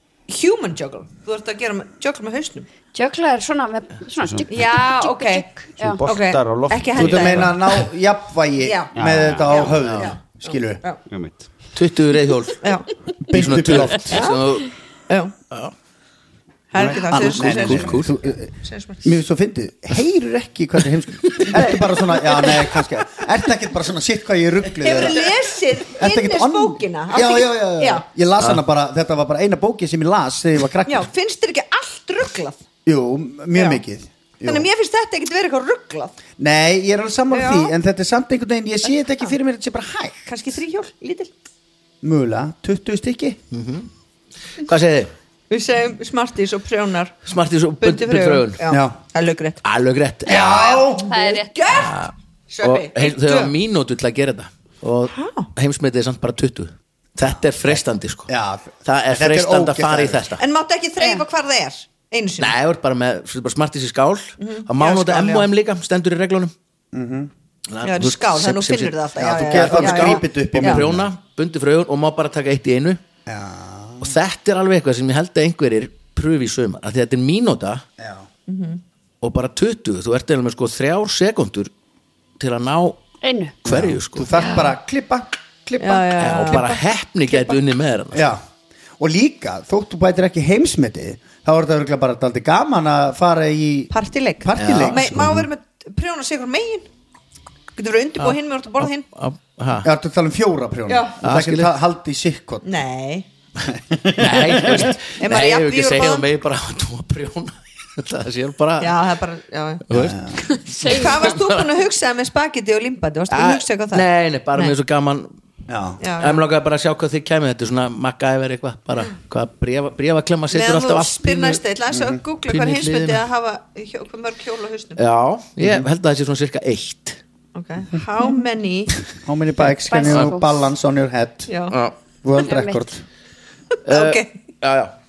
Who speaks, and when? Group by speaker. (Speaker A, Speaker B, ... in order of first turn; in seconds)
Speaker A: 0.3-2.7, 4.5-5.5, 6.0-7.8, 8.6-11.0, 12.6-12.9, 14.1-14.5, 15.1-15.3, 16.7-18.1, 18.6-19.1, 24.8-28.0, 30.9-32.6, 33.5-33.8, 34.4-36.2, 37.3-37.7, 40.3-41.3, 45.5-47.2, 47.8-49.6, 50.3-53.5, 55.1-55.5, 60.4-62.5, 64.4-65.5, 67.8-70.8, 78.5-78.8, 85.8-87.6, 93.9-96.9, 97.8-99.1, 100.9-101.1, 102.6-103.3, 105.2-106.2, 108.8-109.8, 110.8-114.7, 116.0-116.4, 120.5-125.0, 127.5-128.9, 131.5-131.8, 133.9-134.3
Speaker B: 2.9-6.0, 51.0-51.8, 83.2-83.5, 110.7-111.1, 129.8-130.4, 132.4-132.8
Speaker C: 4.2-4.5, 5.8-7.6, 8.9-9.7, 11.1-11.5
Speaker D: 6.9-10.8, 13.3-14.3, 16.8-25.3, 25.8-31.1, 32.9-34.7, 36.4-40.3, 42.0-43.4, 48.7-48.9, 50.2-51.1, 58.3-60.2, 66.9-67.3, 69.2-71.1, 73.2-74.2, 78.0-78.2, 83.6-86.7, 88.1-88.4, 89.0-95.5, 99.8-102.7, 103.6-104.9, 109.9-110.4, 115.7-116.0, 121.9-122.2, 125.6-125.9, 129.2-131.5, 132.2-133.0
Speaker E: 9.8-10.1, 11.7-12.6, 13.3-14.7, 17.1-18.1, 43.5-43.9, 44.6-45.1, 47.2-48.6, 49.6-50.8, 51.7-58.3, 58.8-60.4, 62.4-66.5, 67.7-73.0, 74.0-77.8, 79.2-81.7, 82.4-83.0, 83.6-84.3, 86.2-88.3, 94.5-95.3, 98.2-99.9, 101.2-101.8, 104.2-109.0, 109.9-111.7, 113.3-115.3, 116.2-121.6, 122.5-123.2, 125.0-127.2, 130.0-130.4, 131.7-131.9, 133.8-134.9